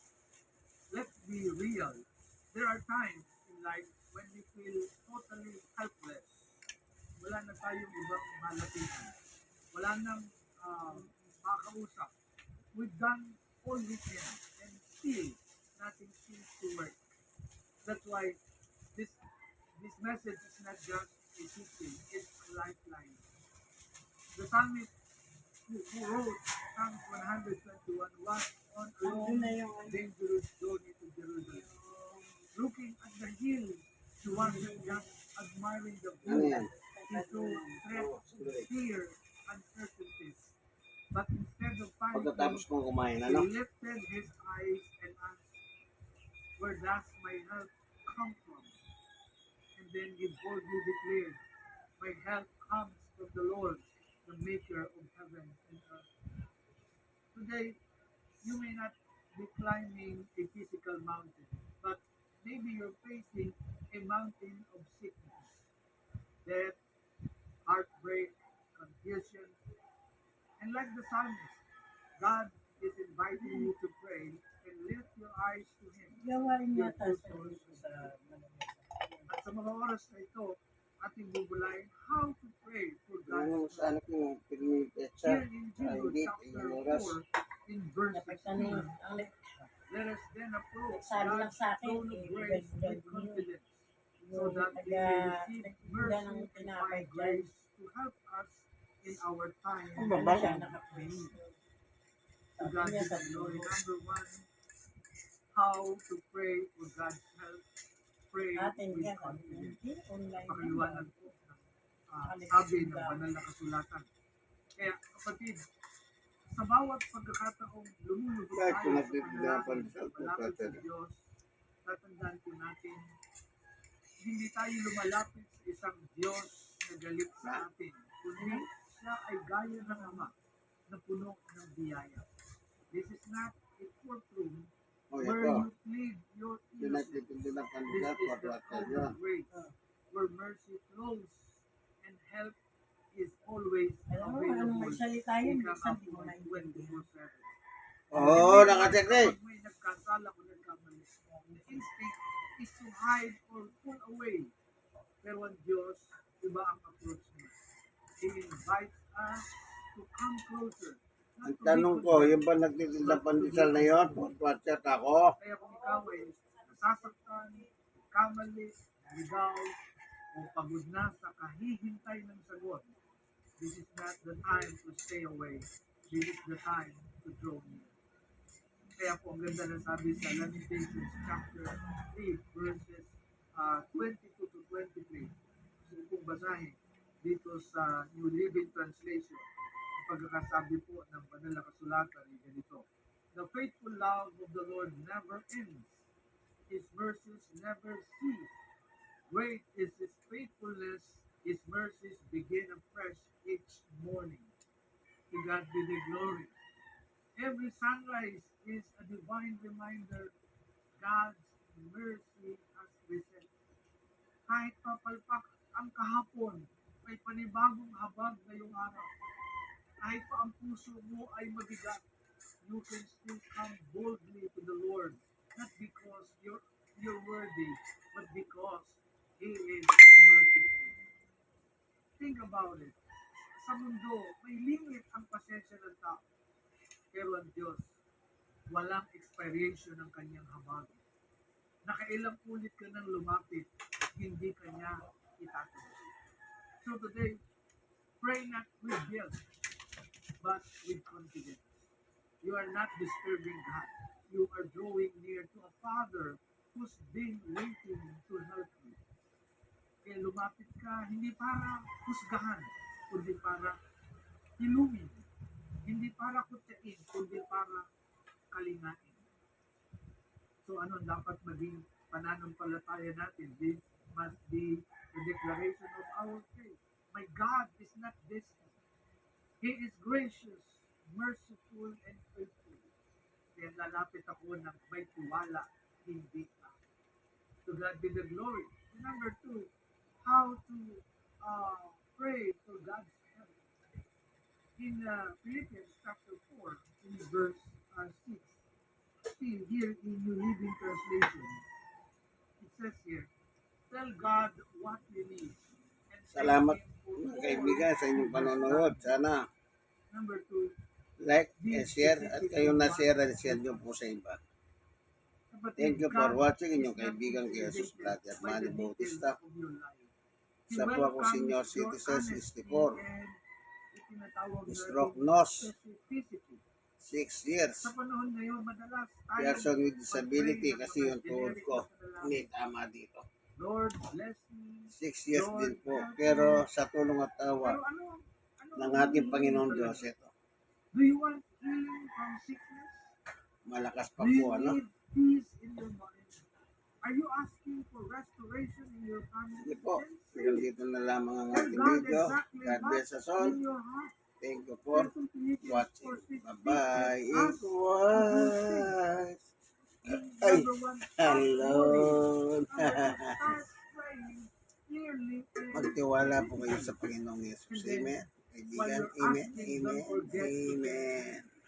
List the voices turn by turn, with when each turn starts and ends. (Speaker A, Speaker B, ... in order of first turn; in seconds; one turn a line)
Speaker A: 0.9-6.5
Speaker A: 7.2-9.2
Speaker A: 9.7-12.1
Speaker B: 10.9-11.3
Speaker A: 12.7-17.0
Speaker A: 17.8-18.4
Speaker A: 19.8-23.2
Speaker A: 24.3-24.9
Speaker A: 25.7-31.7
Speaker B: 29.0-30.0
Speaker B: 31.5-32.5
Speaker A: 32.5-40.6
Speaker B: 34.3-35.2
Speaker B: 36.2-37.9
Speaker C: 36.3-36.7
Speaker C: 37.9-38.7
Speaker A: 41.1-42.7
Speaker C: 42.1-43.5
Speaker A: 43.2-45.6
Speaker A: 46.6-48.8
Speaker A: 49.8-51.4
Speaker A: 52.0-56.1
Speaker A: 57.3-57.8
Speaker A: 58.4-65.6
Speaker A: 66.4-66.8
Speaker A: 67.7-69.6
Speaker A: 70.6-71.6
Speaker A: 72.2-78.1
Speaker B: 73.3-73.7
Speaker B: 76.2-79.3
Speaker A: 79.3-84.0
Speaker C: 83.3-87.2
Speaker A: 85.2-89.0
Speaker B: 88.1-89.7
Speaker A: 89.9-101.4
Speaker B: 90.9-93.5
Speaker B: 94.2-97.5
Speaker B: 100.0-101.6
Speaker C: 100.0-100.5
Speaker B: 102.6-103.8
Speaker A: 102.6-104.5
Speaker A: 105.5-107.7
Speaker A: 108.3-109.8
Speaker B: 108.5-111.4
Speaker A: 110.5-114.1
Speaker B: 112.2-113.2
Speaker A: 114.8-115.6
Speaker A: 116.5-121.3
Speaker C: 118.5-120.8
Speaker A: 121.8-123.1
Speaker A: 124.2-130.3
Speaker B: 128.4-128.7
Speaker B: 129.8-130.3
Speaker A: 130.9-132.3
Speaker A: 132.9-137.3
Speaker C: 135.1-135.7
Speaker C: 136.8-139.2
Speaker A: 137.9-139.5
Speaker A: 140.1-142.6
Speaker A: 143.1-147.6
Speaker B: 144.1-147.1
Speaker C: 148.1-149.4
Speaker A: 148.1-154.5
Speaker B: 148.1-148.7
Speaker B: 151.2-151.9
Speaker A: 155.2-157.6
Speaker A: 158.2-164.3
Speaker C: 161.4-165.4
Speaker A: 165.4-169.8
Speaker B: 165.6-167.7
Speaker A: 170.3-172.9
Speaker A: 173.6-178.0
Speaker A: 179.0-185.3
Speaker A: 185.8-189.5
Speaker A: 190.0-196.1
Speaker A: 196.7-198.6
Speaker A: 199.3-204.5
Speaker A: 205.3-206.6
Speaker A: 207.4-210.3
Speaker A: 211.0-213.5
Speaker A: 214.5-219.1
Speaker A: 220.0-222.0
Speaker A: 222.6-231.0
Speaker A: 232.2-233.0
Speaker A: 233.6-236.3
Speaker A: 237.1-238.0
Speaker A: 238.7-241.0
Speaker A: 241.8-246.1
Speaker A: 246.8-247.4
Speaker A: 248.2-249.4
Speaker A: 250.4-251.9
Speaker A: 252.4-259.0
Speaker A: 260.0-263.8
Speaker A: 264.6-265.2
Speaker A: 265.9-267.9
Speaker A: 268.5-269.2
Speaker A: 270.6-278.8
Speaker A: 279.6-282.9
Speaker A: 283.6-286.8
Speaker A: 287.6-293.6
Speaker A: 294.8-298.6
Speaker A: 299.3-301.6
Speaker A: 302.6-303.3
Speaker A: 303.9-309.1
Speaker C: 306.3-309.5
Speaker A: 310.1-310.8
Speaker C: 311.2-314.4
Speaker A: 311.6-313.9
Speaker A: 315.5-320.1
Speaker C: 315.8-319.4
Speaker A: 320.7-323.4
Speaker C: 320.7-323.0
Speaker A: 323.9-326.6
Speaker C: 324.7-325.7
Speaker C: 327.0-327.9
Speaker A: 327.8-332.5
Speaker C: 329.4-333.2
Speaker A: 333.6-336.6
Speaker C: 334.9-337.8
Speaker A: 337.6-340.1
Speaker C: 338.8-340.3
Speaker A: 340.9-343.1
Speaker C: 343.6-344.8
Speaker A: 344.2-346.4
Speaker A: 347.0-350.7
Speaker C: 349.6-353.6
Speaker A: 351.5-354.1
Speaker C: 354.4-359.4
Speaker A: 354.9-359.0
Speaker A: 360.0-367.0
Speaker C: 360.1-360.7
Speaker C: 361.2-363.6
Speaker C: 365.7-371.5
Speaker A: 367.7-371.4